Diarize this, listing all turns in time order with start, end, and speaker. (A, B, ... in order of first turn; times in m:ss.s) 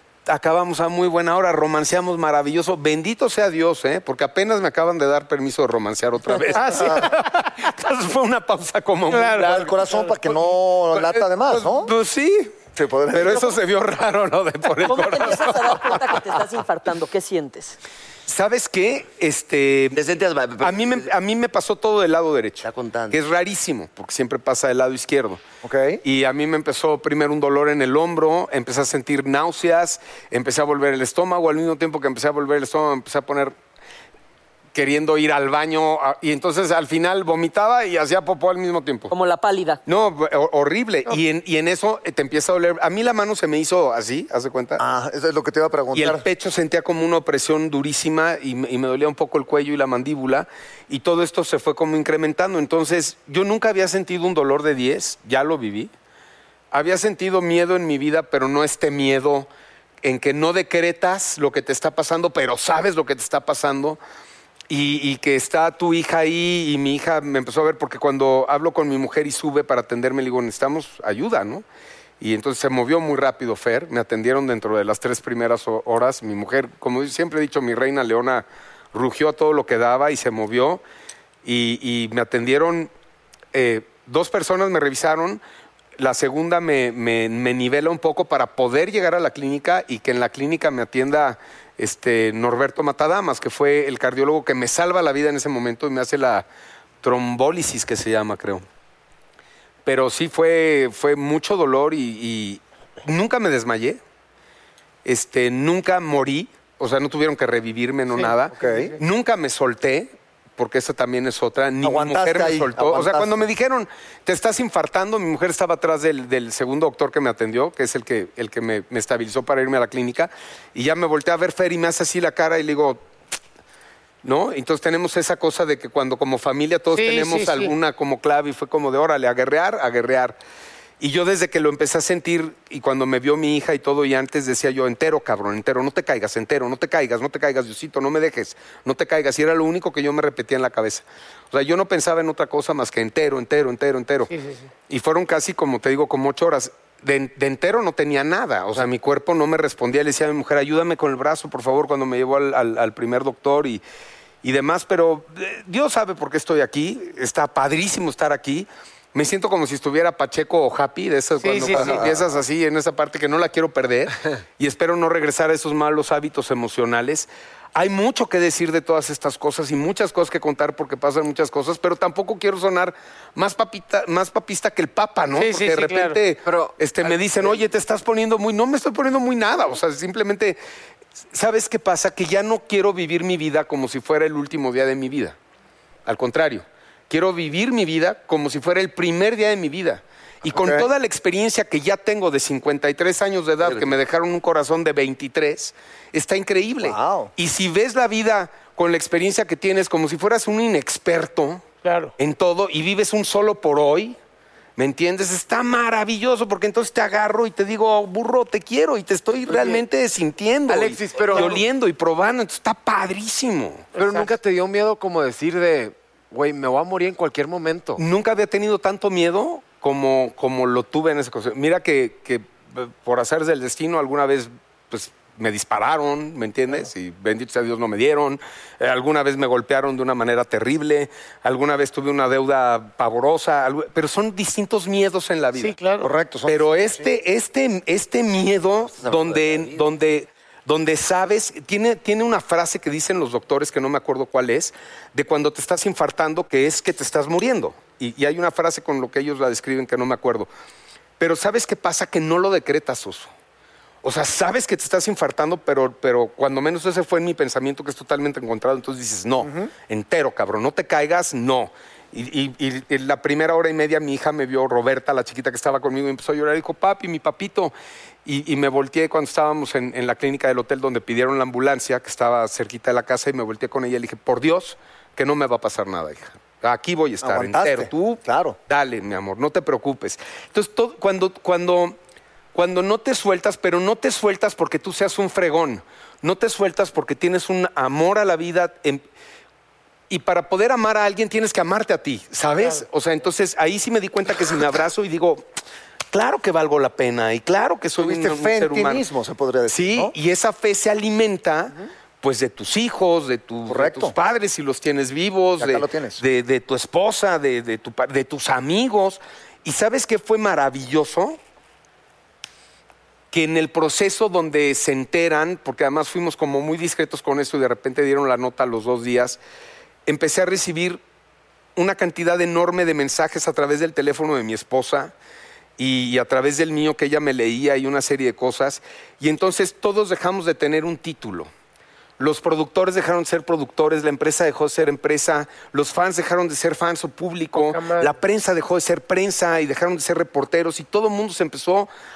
0:00.2-0:09.6 A
0:06.5-0:07.0 B
0:06.6-0:07.0 C
0:09.1-0:10.1 B
0:09.2-0:11.9 C
0:10.9-0:16.2 A
0:12.7-0:13.6 C
0:14.8-0:17.8 D
0:18.3-0:20.0 A
0:19.9-0:21.0 E
0:20.6-0:25.4 A
0:22.6-0:23.2 E
0:25.6-0:26.0 C
0:26.0-0:33.5 A
0:34.7-0:39.1 A
0:39.1-0:39.8 D
0:39.9-0:44.8 A
0:44.8-0:46.2 C
0:45.9-0:55.9 A
0:56.7-0:59.5 A
1:00.0-1:04.0 A
1:04.7-1:11.6 A
1:12.2-1:20.8 A
1:21.4-1:22.9 A
1:23.5-1:25.4 A
1:26.0-1:36.4 A
1:37.0-1:38.6 A
1:39.8-1:44.0 A
1:45.0-2:03.0 A
1:48.1-1:48.7 B
1:48.5-1:49.0 C
1:51.8-1:53.4 C
2:04.2-2:10.4 A
2:06.9-2:07.7 B
2:11.0-2:24.3 A
2:24.3-2:24.7 B
2:24.9-2:33.8 A
2:34.4-3:00.6 A
2:41.4-2:42.0 B
2:41.6-2:41.9 F
2:55.3-2:56.2 B
2:56.4-2:57.6 F
3:01.3-3:05.4 A
3:06.0-3:21.6 A
3:10.4-3:10.9 C
3:13.6-3:13.9 E
3:16.8-3:17.3 C
3:21.8-3:22.1 B
3:22.2-3:24.2 A
3:24.8-3:33.9 A
3:30.7-3:31.6 F
3:31.3-3:31.6 B
3:33.9-3:38.0 F
3:34.0-3:34.3 B
3:38.0-3:55.8 A
3:55.5-3:56.1 B
3:56.0-3:57.1 C
3:56.4-4:10.5 A
3:58.9-3:59.8 E
4:11.2-4:13.3 A
4:14.0-4:27.7 A
4:19.4-4:19.7 C
4:28.2-4:41.9 A
4:37.2-4:38.6 C
4:42.5-4:49.0 A
4:50.1-4:55.4 A
4:52.6-4:52.8 B
4:56.1-4:59.0 A
4:58.0-5:00.1 C
4:59.7-5:11.4 A
5:03.7-5:04.1 C
5:05.6-5:06.2 C
5:13.3-5:19.4 A
5:20.1-5:21.0 A
5:21.8-5:25.1 A
5:25.8-5:31.5 A
5:32.2-5:41.9 A
5:37.5-5:38.1 B